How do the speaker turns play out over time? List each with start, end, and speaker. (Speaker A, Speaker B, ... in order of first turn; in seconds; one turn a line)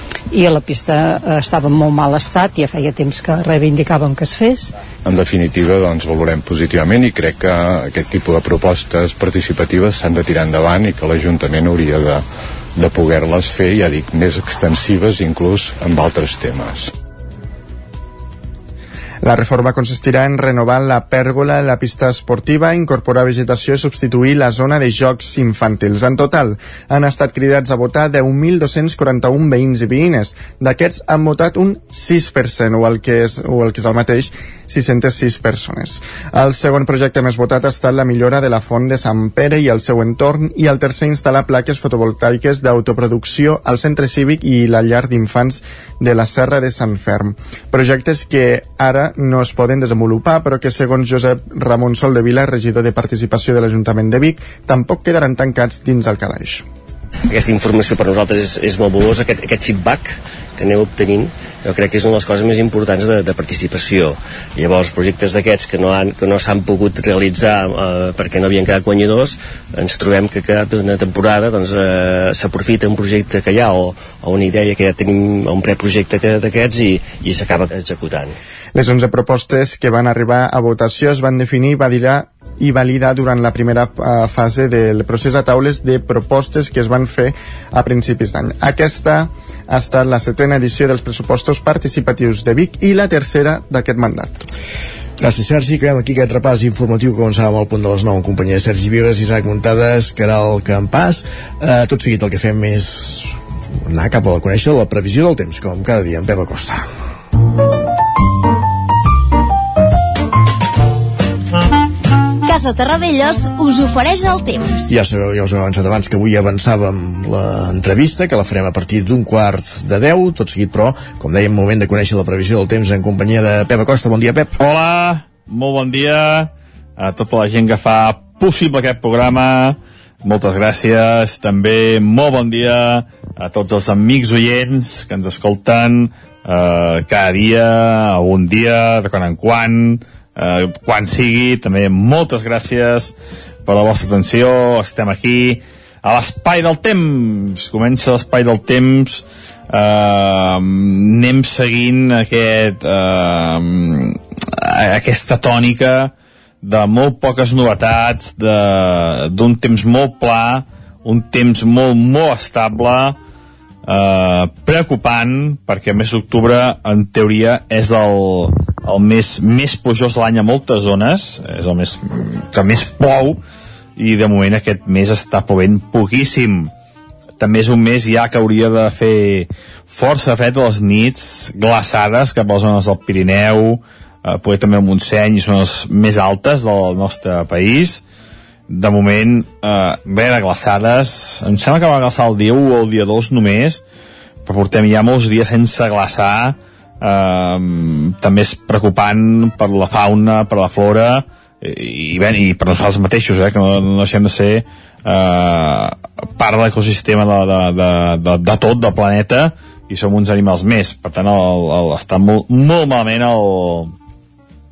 Speaker A: 0.3-4.7
Speaker B: 5.0-12.2
Speaker B: 12.7-16.9
Speaker C: 19.2-56.6
Speaker D: 57.3-78.3
Speaker C: 78.7-94.5
Speaker E: 95.2-106.8
Speaker F: 112.5-114.9
Speaker E: 114.9-124.5
Speaker G: 124.6-143.1
Speaker G: 143.7-163.2
Speaker G: 163.8-173.4
Speaker G: 174.0-176.7
Speaker G: 177.4-188.0
Speaker G: 188.7-193.8
Speaker G: 194.4-213.9